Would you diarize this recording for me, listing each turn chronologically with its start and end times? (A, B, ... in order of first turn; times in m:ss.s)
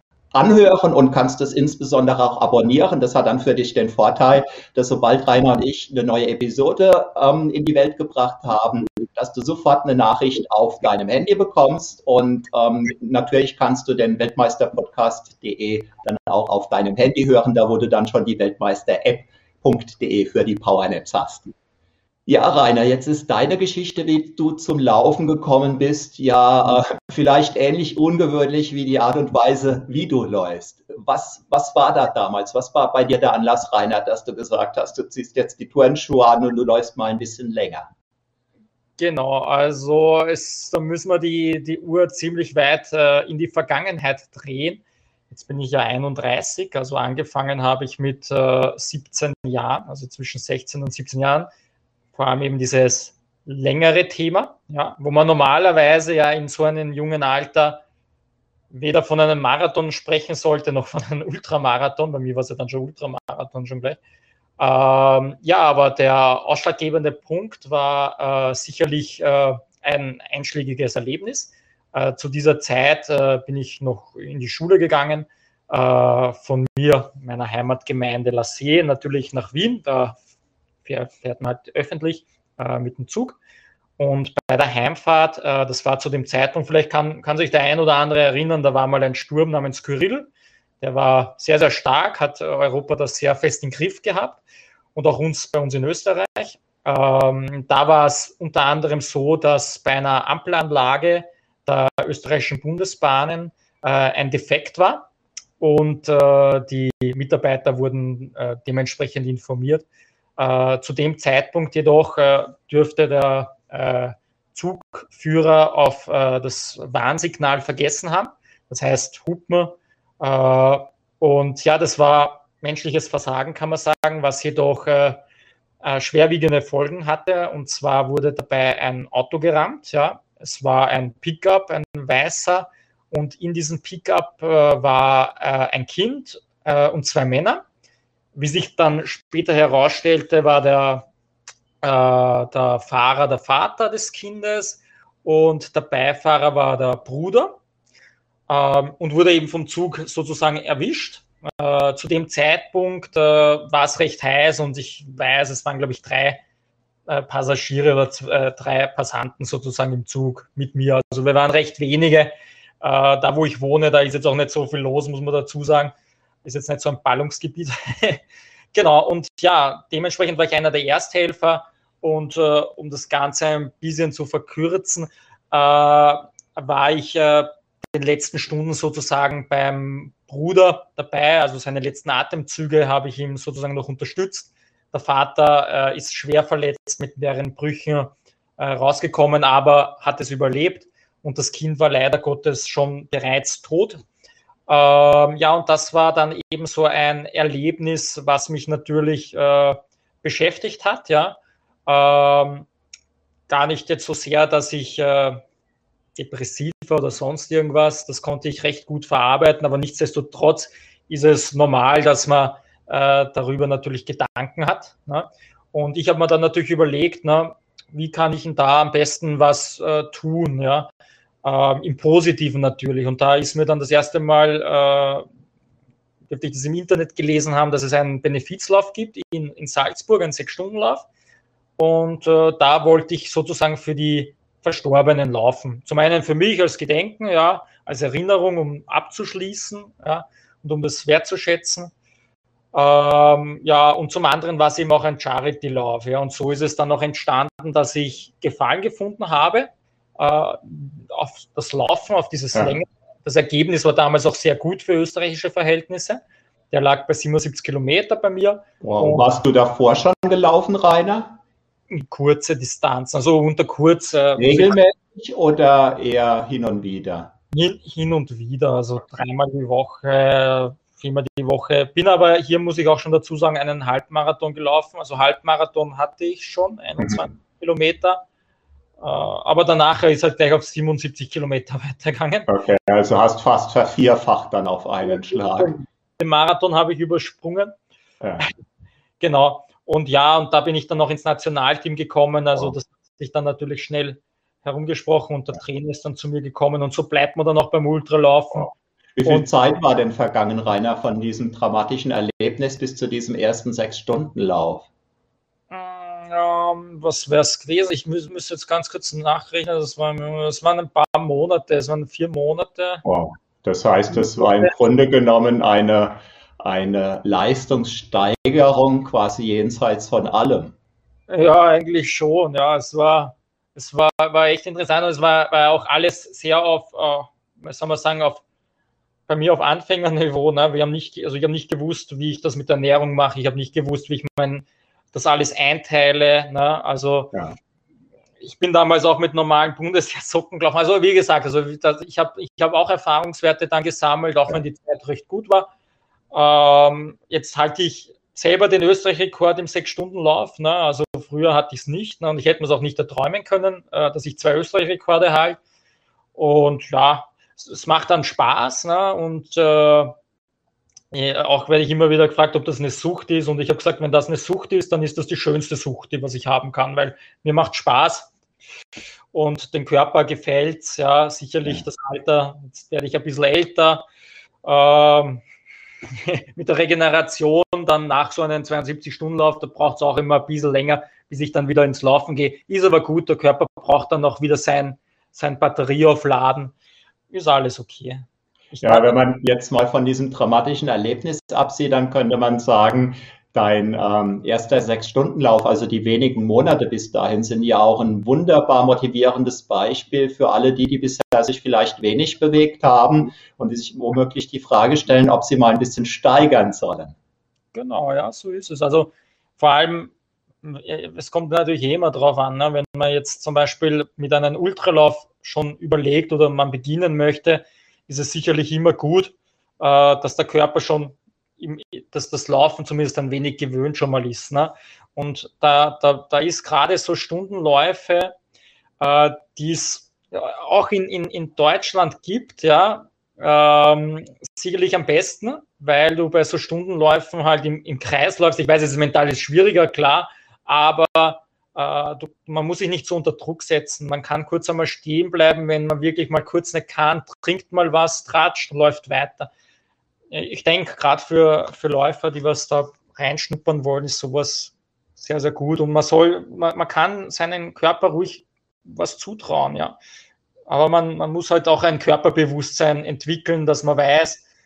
0:00.3-0:21.5 A
0:22.3-0:37.9 A
0:39.0-0:51.5 B
0:52.1-0:57.8 B
0:58.7-1:04.0 B
1:04.6-1:20.2 B
1:20.8-1:23.4 B
1:24.0-1:30.3 B
1:30.8-1:34.4 B
1:35.0-1:45.1 B
1:45.6-1:49.9 B
1:50.4-2:05.2 B
2:05.8-2:17.6 B
2:18.3-2:21.1 B
2:21.8-2:27.6 B
2:28.5-2:36.4 B
2:37.1-3:14.0 B
3:14.7-3:22.7 B
3:23.5-3:25.4 B
3:26.2-3:40.9 B
3:41.4-3:45.3 B
3:46.3-3:51.1 B
3:51.8-4:01.9 B
4:02.7-4:19.3 B
4:18.8-4:21.4 A
4:21.9-4:24.8 B
4:24.4-4:27.3 A
4:27.5-4:38.2 B
4:37.0-4:37.2 A
4:39.0-4:42.5 B
4:42.5-4:45.8 A
4:45.1-4:47.8 B
4:48.2-4:48.5 A
4:49.2-4:58.7 B
4:58.5-5:04.9 A
5:05.7-5:13.0 B
5:13.0-5:20.8 A
5:14.1-5:14.7 B
5:21.3-5:28.4 B
5:29.3-5:37.3 B
5:38.4-5:45.7 B
5:46.3-5:55.6 B
5:56.4-6:00.2 B
6:01.1-6:08.3 B
6:09.3-6:14.1 B
6:14.6-6:15.4 B
6:16.0-6:26.7 B
6:27.3-6:29.1 B
6:28.8-6:47.2 A
6:47.7-7:08.3 B
7:09.0-7:29.5 B
7:30.3-7:40.0 B
7:40.7-7:44.4 B